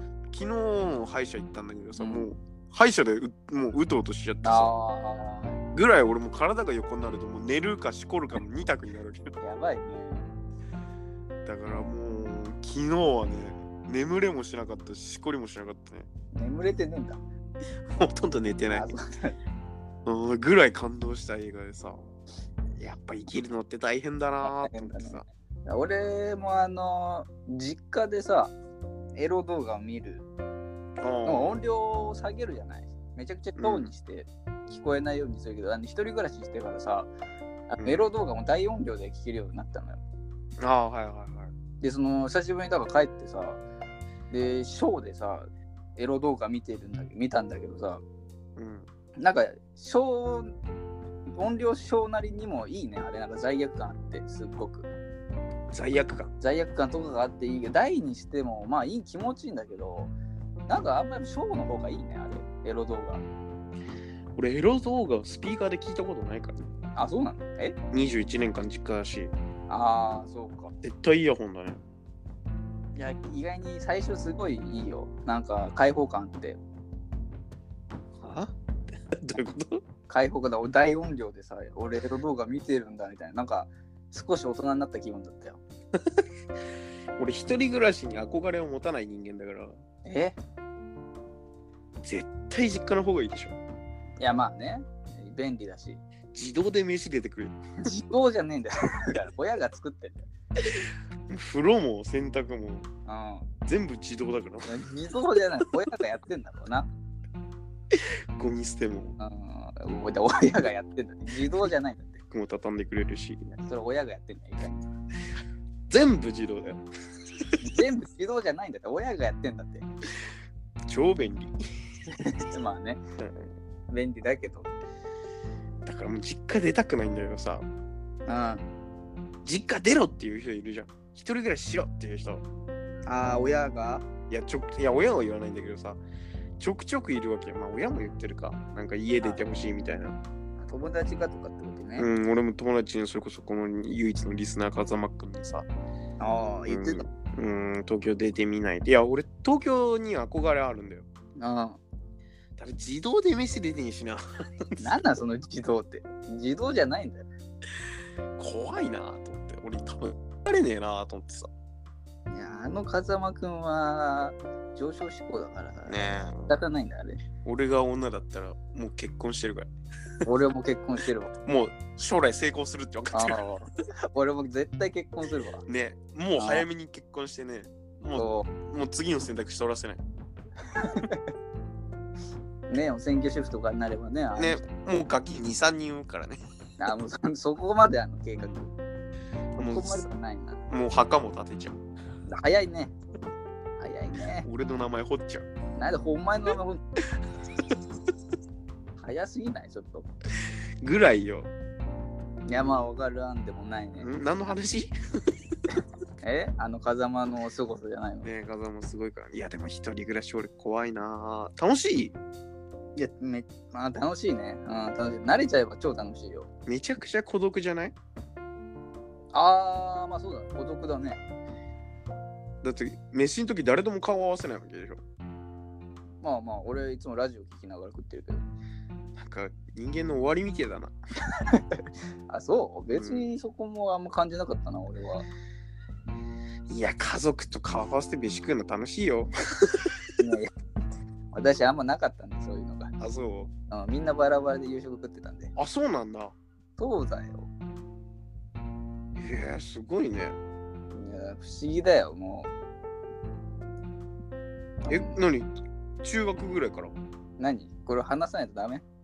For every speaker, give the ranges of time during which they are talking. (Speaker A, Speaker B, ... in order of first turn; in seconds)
Speaker A: 0.3-4.7, 5.7-9.3, 11.4-16.1, 17.9-18.9, 20.1-22.1, 22.8-25.2, 31.0-31.6, 33.6-33.9, 37.8-38.1, 40.6-41.5, 48.6-48.9, 55.7-56.3, 64.3-66.7, 67.9-69.3, 70.8-71.8, 78.2-78.5, 79.1-79.8, 87.2-89.8, 92.0-93.5, 96.3-97.6, 100.8-102.9, 103.6-104.8, 107.9-109.2, 112.3-113.6, 115.9-116.8, 120.9-121.6, 123.2-123.5, 125.8-127.7, 129.4-132.4, 134.3-136.0, 136.6-140.2, 142.0-145.7, 146.7-151.0, 152.6-155.0, 158.4-161.5, 165.9-166.6, 167.4-169.7, 171.4-173.4, 175.6-180.0, 184.3-186.4, 189.6-190.0, 190.7-191.8, 194.4-195.5, 200.8-201.5, 204.0-204.9, 208.2-212.2, 216.7-217.9, 222.6-225.0, 229.2-230.9, 232.9-233.3, 236.7-239.8, 243.0-243.5, 245.6-246.3, 249.2-250.4, 254.9-256.9
Speaker B: 2.0-2.3, 4.4-5.6, 9.4-10.3, 16.3-17.2, 18.7-19.3, 24.4-28.5, 29.1-30.2, 31.2-37.1, 37.7-40.0, 41.8-43.6, 44.3-48.0, 49.2-50.5, 51.3-54.9, 56.4-60.1, 60.7-63.2, 67.0-67.8, 69.7-70.7, 73.0-76.6, 80.1-85.6, 90.0-90.4, 94.2-96.0, 97.8-100.2, 103.0-103.5, 104.7-106.9, 109.2-112.2, 113.6-114.8, 117.6-119.9, 122.1-123.0, 123.9-124.7, 128.2-128.6, 133.0-134.1, 140.6-142.1, 146.2-147.0, 151.4-151.8, 154.8-157.3, 162.3-167.2, 170.2-171.3, 173.1-175.6, 176.4-176.7, 178.1-178.5, 180.8-181.2, 182.7-184.6, 186.8-188.7, 189.6-190.6, 192.3-192.9, 193.8-194.5, 195.8-196.8, 199.0-200.1, 202.4-204.6, 206.2-208.3, 212.9-216.5, 219.3-221.2, 226.2-228.4, 231.5-235.2, 240.2-240.5, 241.3-242.9, 243.7-245.5, 246.8-247.5, 250.9-252.5, 254.8-255.2, 257.4-258.8